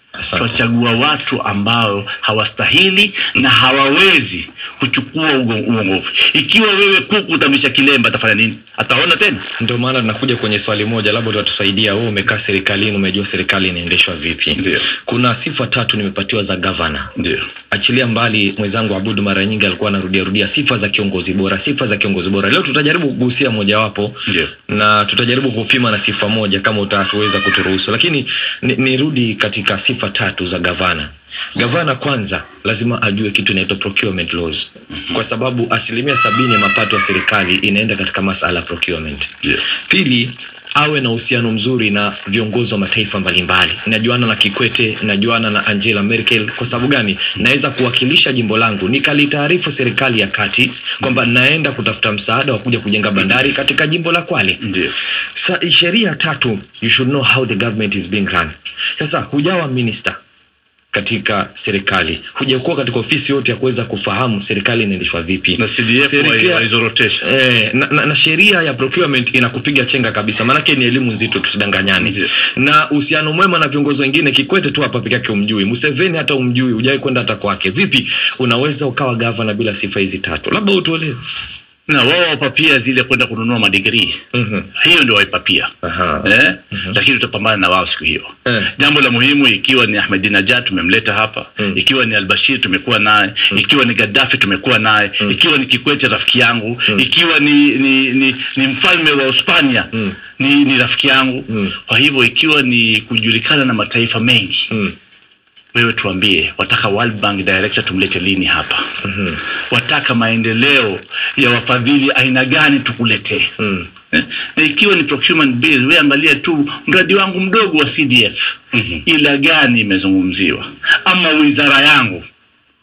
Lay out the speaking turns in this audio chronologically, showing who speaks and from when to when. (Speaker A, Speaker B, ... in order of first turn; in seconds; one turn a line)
Speaker A: 0.3-0.6
Speaker B: 0.4-9.4
Speaker A: 9.6-17.1
Speaker B: 14.6-14.8
Speaker B: 17.1-17.5
Speaker A: 17.7-54.6
Speaker B: 54.6-54.9
Speaker A: 55.4-60.2
Speaker A: 60.9-66.7
Speaker B: 65.6-67.2
Speaker A: 67.2-81.2
Speaker B: 81.9-84.2
Speaker A: 84.3-84.7
Speaker B: 84.8-85.7
Speaker A: 85.8-86.3
Speaker B: 86.2-104.7
Speaker A: 88.5-88.7
Speaker B: 105.7-108.8
Speaker A: 109.0-109.4
Speaker B: 109.7-113.5
Speaker A: 113.6-113.9
Speaker B: 114.1-118.4
Speaker B: 119.0-122.2